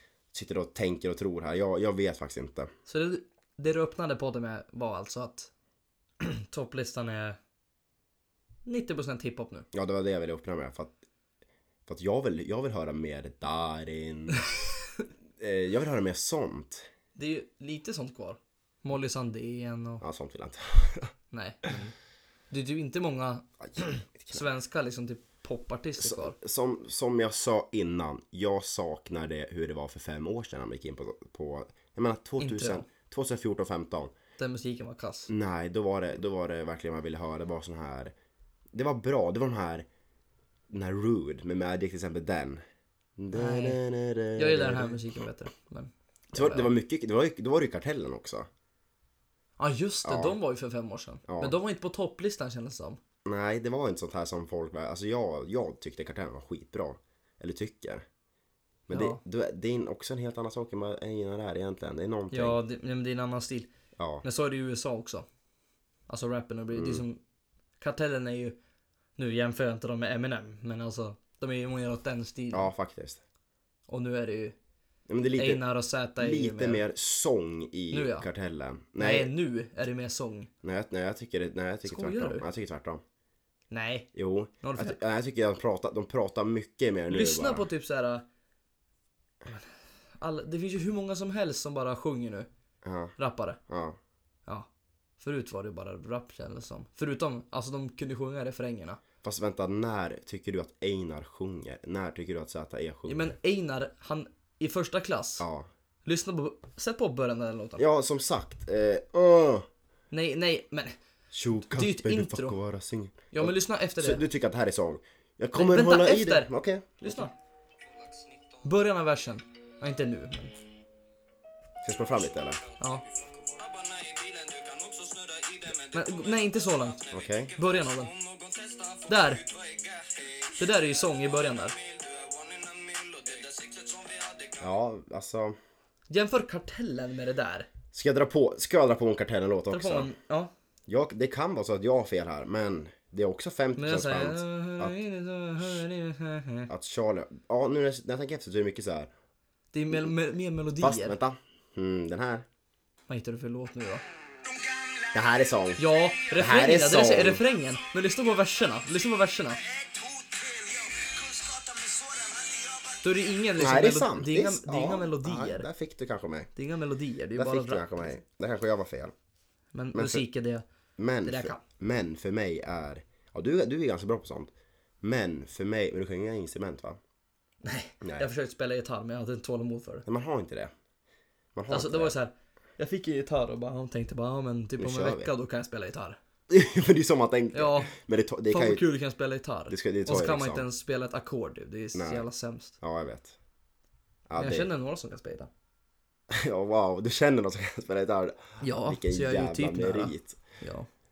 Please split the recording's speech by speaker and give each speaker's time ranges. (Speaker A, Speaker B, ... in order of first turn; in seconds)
Speaker A: 0.3-2.7, 9.7-11.0, 11.9-14.5, 15.4-16.9, 20.0-21.1, 23.6-24.4, 26.0-34.1, 35.3-38.1, 38.7-39.9, 40.7-42.6, 43.2-45.0, 46.3-48.5, 50.0-50.4, 51.3-51.5, 53.2-58.0, 58.9-62.6, 64.0-64.2, 66.7-67.0, 72.5-73.2, 75.1-75.6, 76.2-79.3, 80.6-83.0, 84.1-87.7, 92.8-93.1, 93.7-94.0, 99.2-103.3, 105.4-105.7, 107.8-109.7, 111.3-117.3, 121.8-122.6, 127.1-127.5, 134.6-135.6, 137.9-140.1, 140.9-145.0, 146.7-149.1, 150.8-152.4, 155.1-155.8, 156.4-157.4, 163.6-166.5, 167.4-169.1, 169.9-170.2, 171.0-174.5, 175.0-177.0, 178.0-178.3, 180.1-180.7, 181.5-182.1, 184.8-185.3, 186.5-188.9, 189.7-190.7, 191.9-192.3, 192.8-193.4, 194.3-194.7, 196.3-200.4
Speaker B: 2.9-5.5, 6.2-7.4, 8.6-9.7, 14.5-15.0, 17.1-20.0, 21.3-21.9, 22.5-26.4, 32.4-32.9, 34.4-35.3, 43.3-43.8, 44.4-46.7, 49.6-53.0, 58.9-59.2, 62.3-63.7, 64.2-65.3, 66.1-67.2, 67.8-68.6, 69.2-72.7, 73.9-74.5, 75.4-76.8, 77.9-78.2, 79.0-80.5, 81.8-82.4, 83.7-84.1, 84.6-85.0, 87.1-88.2, 89.5-92.5, 93.2-93.6, 95.2-99.0, 103.1-105.5, 106.0-107.8, 110.1-111.0, 111.7-112.6, 113.3-114.2, 115.5-117.3, 118.6-120.5, 125.9-127.0, 127.6-128.1, 129.1-129.4, 130.6-131.8, 136.1-137.7, 139.7-140.5, 143.8-146.7, 149.7-151.2, 153.1-154.0, 155.8-159.6, 163.0-165.7, 166.6-168.2, 169.7-170.6, 171.2-171.6, 177.6-180.0, 181.7-186.2, 187.5-187.9, 188.5-192.8, 194.4-195.5, 198.6-200.9
Speaker C: 117.9-118.7, 122.6-134.7, 154.4-155.2, 159.6-163.0